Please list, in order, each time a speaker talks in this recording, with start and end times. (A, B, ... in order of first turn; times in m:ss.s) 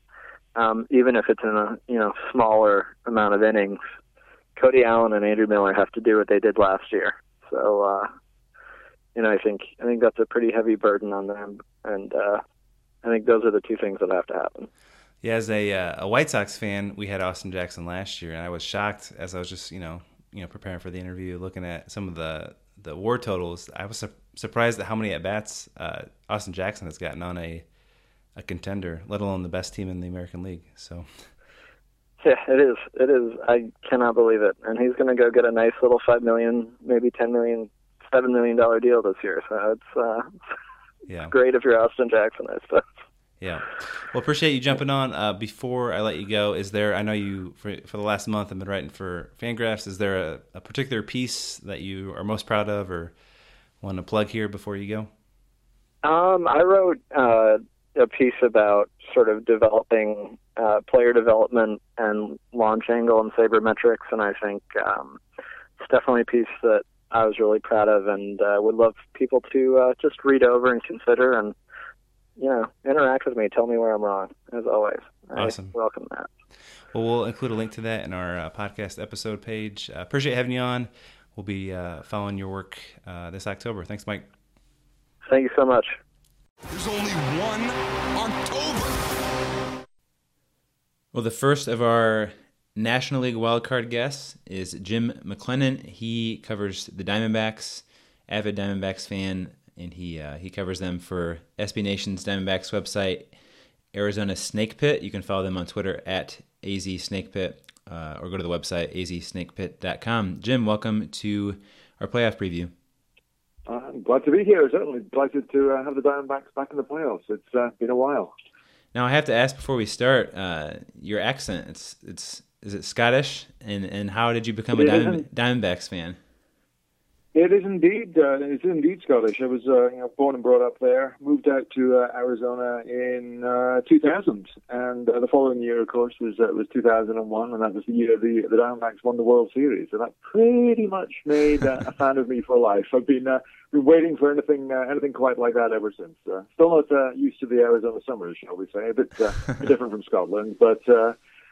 0:00.6-0:03.8 A
0:04.6-0:08.1 A
0:09.2-0:12.4 A
0:13.0-0:14.7 A
0:15.2-0:27.6 B
0:28.4-0:31.3 B
0:32.2-0:40.3 A
0:41.1-0:41.3 B
0:41.3-0:42.8 A
0:43.4-0:53.2 B
0:53.8-0:55.1 B
0:56.0-1:05.2 A
1:05.8-1:11.6 A
1:12.4-1:16.3 A
1:15.4-1:15.8 B
1:16.9-1:24.3 B
1:25.3-1:26.0 A
1:26.7-1:29.7 C
1:31.1-1:43.3 D
1:43.9-1:52.7 D
1:53.7-1:58.3 E
1:58.9-2:06.2 D
2:04.7-2:05.2 E
2:07.3-2:31.2 E